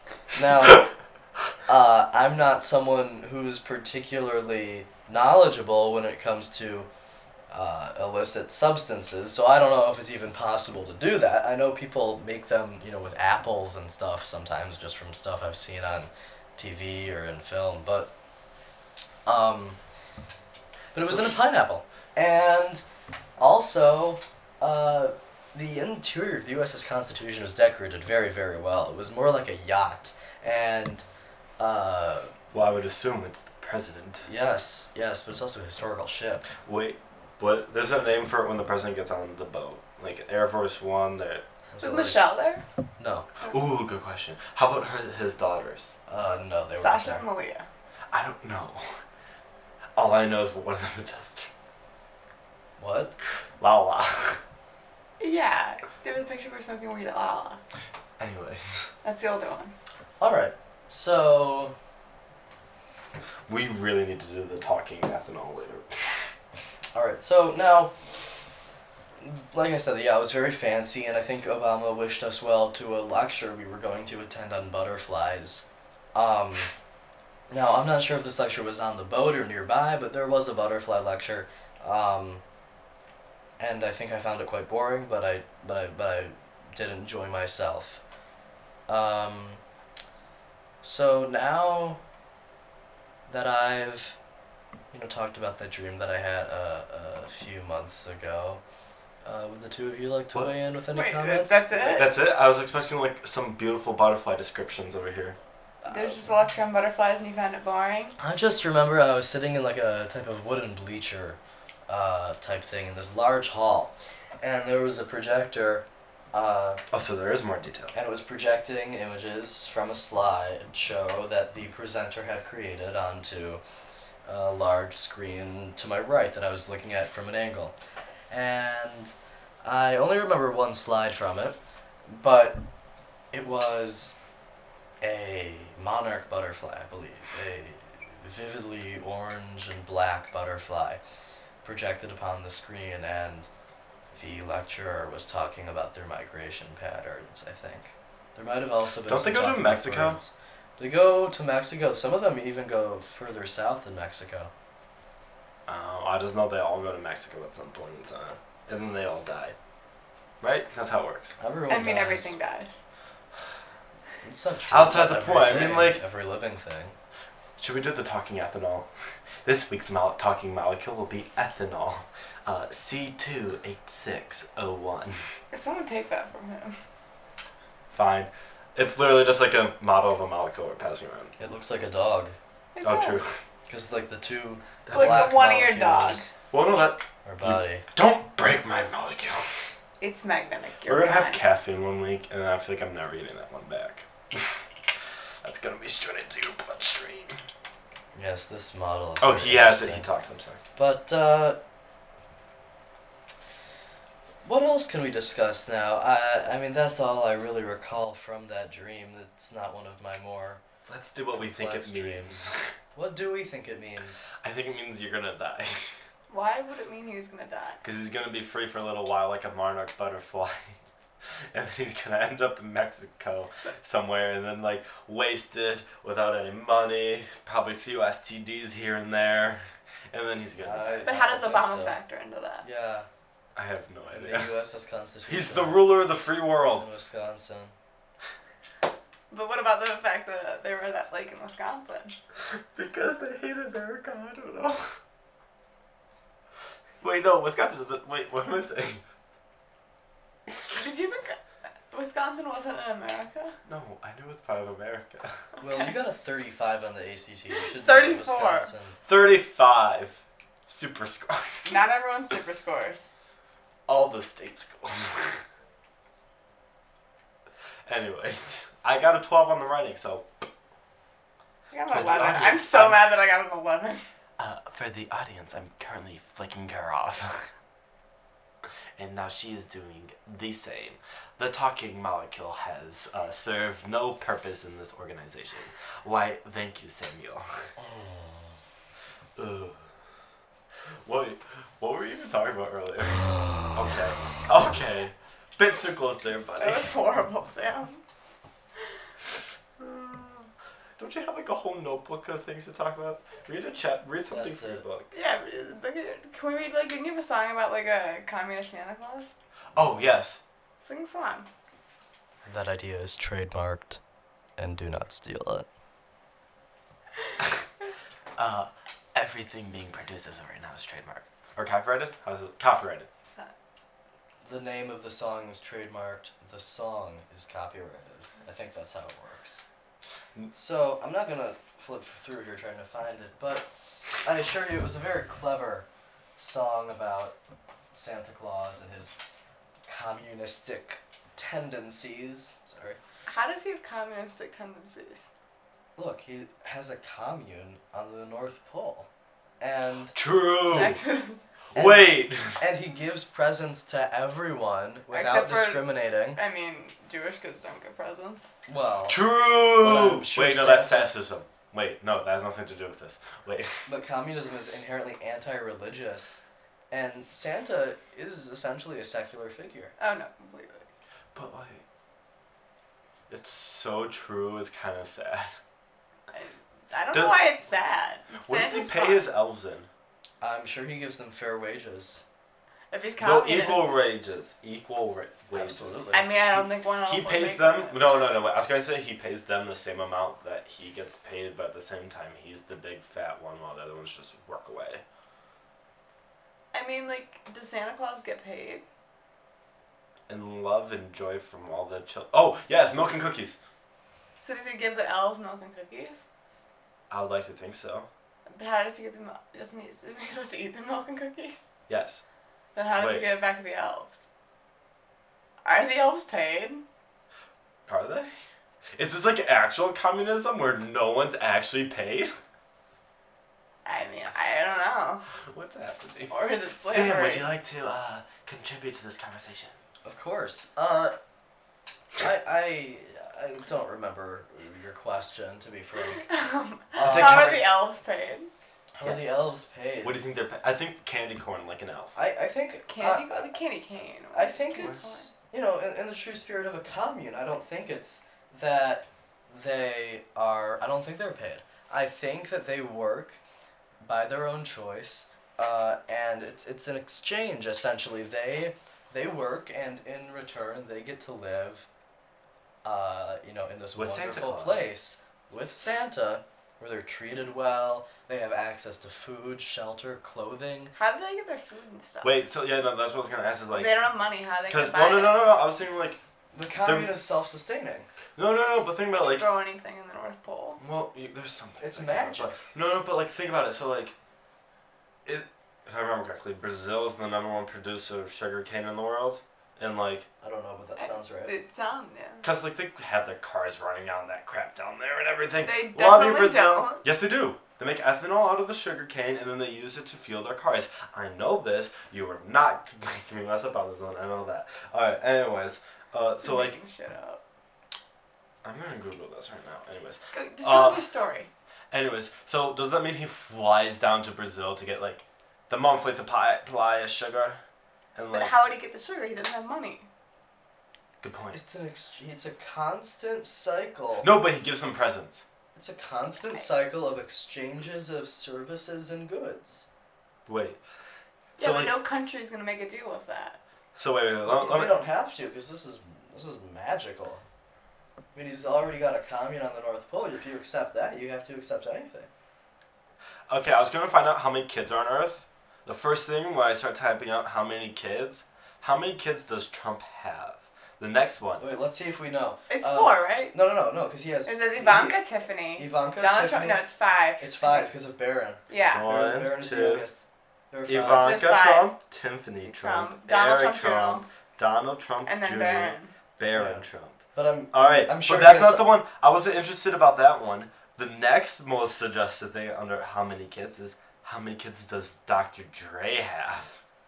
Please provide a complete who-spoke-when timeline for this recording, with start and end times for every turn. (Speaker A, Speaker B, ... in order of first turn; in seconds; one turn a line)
Speaker A: 0.3-0.9
Speaker A: 1.7-6.9
Speaker A: 7.5-18.1
Speaker A: 19.3-19.8
Speaker A: 20.9-22.8
Speaker B: 21.0-21.4
Speaker A: 23.4-31.0
Speaker A: 31.6-32.3
Speaker B: 32.5-34.3
Speaker A: 34.2-36.4
Speaker B: 36.6-41.5
Speaker A: 41.7-42.3
Speaker C: 41.8-42.6
Speaker A: 43.0-43.3
Speaker B: 43.5-45.9
Speaker A: 46.1-47.2
Speaker C: 46.8-47.7
Speaker B: 48.1-49.0
Speaker B: 50.0-51.5
Speaker A: 52.8-53.1
Speaker B: 53.6-54.4
Speaker C: 55.2-57.6
Speaker B: 58.2-58.9
Speaker C: 59.0-59.7
Speaker A: 60.2-61.8
Speaker B: 63.5-66.2
Speaker A: 66.9-67.9
Speaker A: 69.2-76.7
Speaker A: 77.5-82.4
Speaker A: 83.6-88.0
Speaker A: 88.9-89.6
Speaker A: 90.8-92.0
Speaker A: 93.3-94.2
Speaker A: 94.9-98.6
Speaker A: 99.2-102.1
Speaker C: 100.9-102.1
Speaker B: 102.0-105.4
Speaker A: 105.8-106.2
Speaker C: 105.9-108.2
Speaker A: 108.2-116.8
Speaker B: 116.9-117.9
Speaker A: 117.9-123.6
Speaker A: 124.2-127.7
Speaker A: 128.3-129.1
Speaker A: 129.6-132.7
Speaker A: 133.3-134.2
Speaker A: 135.0-141.0
Speaker A: 141.6-143.5
Speaker A: 144.1-154.5
Speaker B: 149.1-150.2
Speaker B: 155.7-159.6
Speaker B: 160.4-161.3
Speaker A: 161.4-162.3
Speaker C: 161.7-162.8
Speaker A: 164.2-167.0
Speaker B: 164.7-166.0
Speaker B: 167.6-168.9
Speaker B: 169.4-175.2
Speaker C: 175.5-176.8
Speaker B: 177.9-181.3
Speaker A: 181.4-182.4
Speaker C: 182.8-183.2
Speaker B: 182.8-183.3
Speaker A: 183.7-186.3
Speaker B: 184.9-185.3
Speaker C: 184.9-186.3
Speaker B: 186.5-189.8
Speaker A: 187.2-187.9
Speaker C: 190.0-191.4
Speaker B: 190.9-194.6
Speaker B: 195.4-197.4
Speaker A: 198.2-200.1
Speaker B: 199.2-200.6
Speaker A: 200.8-201.6
Speaker A: 204.4-210.6
Speaker B: 210.9-212.7
Speaker A: 211.3-214.3
Speaker B: 214.4-215.9
Speaker C: 216.3-217.8
Speaker B: 217.8-220.8
Speaker B: 221.5-231.2
Speaker A: 230.6-232.0
Speaker C: 231.0-232.7
Speaker A: 232.6-233.1
Speaker B: 233.6-234.5
Speaker A: 234.1-235.9
Speaker B: 235.3-236.9
Speaker A: 236.8-237.7
Speaker C: 239.3-242.2
Speaker B: 242.4-245.0
Speaker B: 247.0-249.0
Speaker C: 250.7-251.4
Speaker C: 251.9-253.6
Speaker B: 253.7-255.4
Speaker A: 255.6-259.0
Speaker C: 255.6-255.9
Speaker C: 257.6-258.7
Speaker B: 259.1-261.8
Speaker C: 261.7-263.1
Speaker B: 263.9-265.4
Speaker B: 267.9-270.3
Speaker C: 271.7-274.1
Speaker B: 271.9-273.1
Speaker B: 274.4-277.5
Speaker B: 279.0-287.7
Speaker A: 287.8-288.5
Speaker B: 289.4-289.9
Speaker B: 290.9-296.9
Speaker A: 293.0-294.4
Speaker C: 296.6-298.0
Speaker B: 299.8-305.1
Speaker A: 304.3-304.9
Speaker C: 305.1-309.3
Speaker B: 309.8-310.4
Speaker C: 310.8-311.5
Speaker A: 312.5-314.0
Speaker A: 314.6-315.7
Speaker B: 318.4-323.1
Speaker A: 324.4-329.6
Speaker A: 330.5-333.7
Speaker A: 334.2-337.4
Speaker A: 337.9-339.2
Speaker A: 339.9-343.0
Speaker C: 343.3-345.3
Speaker A: 346.0-349.1
Speaker A: 349.6-350.2
Speaker B: 350.1-351.0
Speaker C: 350.7-351.4
Speaker B: 351.7-352.6
Speaker A: 351.7-356.4
Speaker C: 355.1-358.5
Speaker A: 358.7-359.2
Speaker B: 359.1-363.9
Speaker A: 359.7-361.1
Speaker A: 363.9-369.9
Speaker C: 370.0-370.9
Speaker B: 371.3-371.8
Speaker B: 373.3-375.6
Speaker C: 376.3-379.3
Speaker B: 377.1-377.4
Speaker B: 378.4-379.9
Speaker A: 380.4-382.2
Speaker C: 382.9-383.9
Speaker B: 383.2-395.0
Speaker A: 385.5-386.3
Speaker C: 386.1-388.1
Speaker C: 396.7-398.8
Speaker B: 400.3-403.6
Speaker C: 404.4-406.2
Speaker B: 407.1-408.1
Speaker C: 408.5-411.6
Speaker B: 411.9-412.2
Speaker C: 412.8-414.2
Speaker B: 412.9-413.3
Speaker C: 415.6-416.8
Speaker B: 417.9-418.3
Speaker B: 419.0-422.3
Speaker C: 423.9-425.2
Speaker B: 425.4-429.8
Speaker C: 426.3-427.5
Speaker A: 430.1-431.2
Speaker A: 432.2-436.3
Speaker C: 436.2-438.5
Speaker A: 437.0-437.6
Speaker B: 437.0-437.6
Speaker A: 439.0-440.2
Speaker B: 439.0-439.4
Speaker B: 440.0-442.2
Speaker A: 442.1-443.5
Speaker C: 442.9-445.3
Speaker A: 444.3-453.4
Speaker A: 454.0-461.9
Speaker A: 462.8-470.9
Speaker B: 463.9-464.9
Speaker C: 471.0-472.4
Speaker B: 472.2-474.0
Speaker C: 473.7-475.4
Speaker B: 474.7-476.2
Speaker A: 476.5-478.1
Speaker B: 476.8-477.1
Speaker B: 478.4-479.5
Speaker C: 479.1-480.8
Speaker B: 480.8-484.1
Speaker A: 481.8-482.6
Speaker B: 485.2-490.3
Speaker A: 490.4-491.5
Speaker C: 491.0-492.5
Speaker B: 492.4-506.8
Speaker C: 495.6-497.1
Speaker C: 506.4-507.4
Speaker B: 508.6-511.1
Speaker C: 510.3-511.5
Speaker B: 511.9-517.6
Speaker B: 518.1-518.5
Speaker C: 518.3-520.1
Speaker B: 521.2-521.6
Speaker A: 521.5-524.3
Speaker B: 524.2-525.5
Speaker A: 525.8-529.9
Speaker B: 530.5-530.8
Speaker B: 531.6-532.0
Speaker C: 531.6-533.6
Speaker B: 534.0-535.0
Speaker A: 534.5-537.4
Speaker A: 538.4-542.3
Speaker B: 543.5-551.6
Speaker A: 551.6-555.2
Speaker C: 552.7-553.6
Speaker C: 554.5-557.9
Speaker A: 555.8-556.8
Speaker A: 557.4-561.3
Speaker C: 558.7-559.1
Speaker B: 558.9-560.0
Speaker B: 560.9-567.2
Speaker C: 561.2-561.9
Speaker C: 562.6-564.3
Speaker C: 565.3-566.1
Speaker A: 566.5-568.9
Speaker B: 567.7-576.8